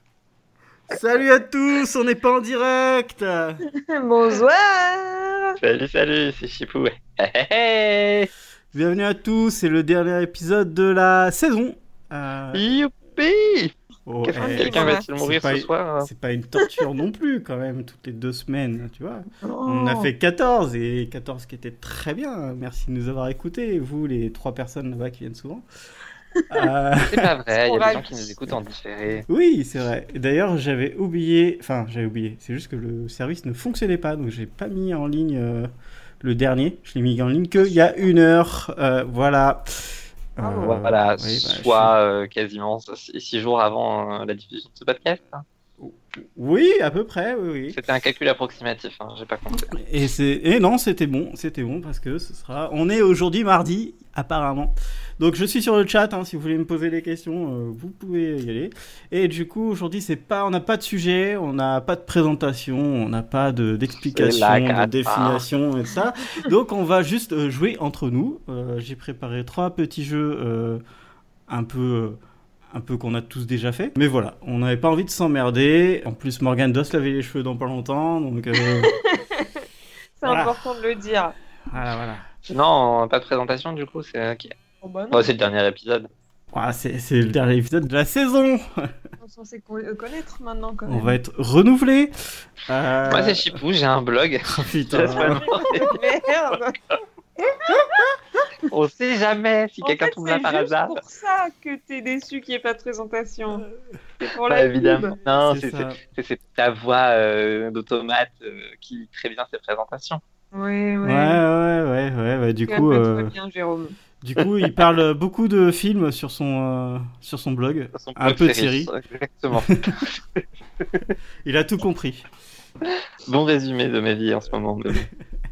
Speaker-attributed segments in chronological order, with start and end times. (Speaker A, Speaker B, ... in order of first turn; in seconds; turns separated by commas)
Speaker A: 0.9-3.6, Speaker B: 3.7-5.6, Speaker C: 5.6-8.3, Speaker A: 8.7-12.6, Speaker C: 12.5-16.1, Speaker A: 14.1-25.6, Speaker B: 14.3-15.1, Speaker B: 16.6-16.8, Speaker B: 19.4-20.1, Speaker A: 26.5-27.3, Speaker C: 27.0-29.3, Speaker B: 27.5-28.4, Speaker A: 29.3-35.7, Speaker A: 36.2-41.9, Speaker B: 37.8-38.1, Speaker B: 40.4-40.9, Speaker C: 40.7-45.4, Speaker A: 45.8-47.8, Speaker C: 47.7-49.8, Speaker A: 49.7-70.8, Speaker C: 64.2-65.5, Speaker A: 71.5-72.2, Speaker A: 72.7-78.9, Speaker B: 78.6-79.7, Speaker B: 80.2-81.4, Speaker A: 80.3-80.6, Speaker A: 81.7-82.3, Speaker C: 82.5-84.5, Speaker B: 84.8-85.4, Speaker C: 85.1-86.1, Speaker A: 86.5-88.9, Speaker B: 89.2-91.2, Speaker A: 90.9-93.6, Speaker C: 93.1-96.6, Speaker A: 94.5-95.5, Speaker B: 95.2-96.8, Speaker B: 97.4-98.2, Speaker C: 98.7-101.0, Speaker B: 99.8-103.7, Speaker B: 104.2-105.2, Speaker C: 104.5-110.2, Speaker A: 105.4-106.0, Speaker B: 110.5-111.4, Speaker A: 111.0-113.3, Speaker B: 112.7-114.0, Speaker A: 114.2-118.9, Speaker C: 118.0-121.1, Speaker A: 119.5-119.8, Speaker A: 121.5-122.2, Speaker C: 122.8-125.0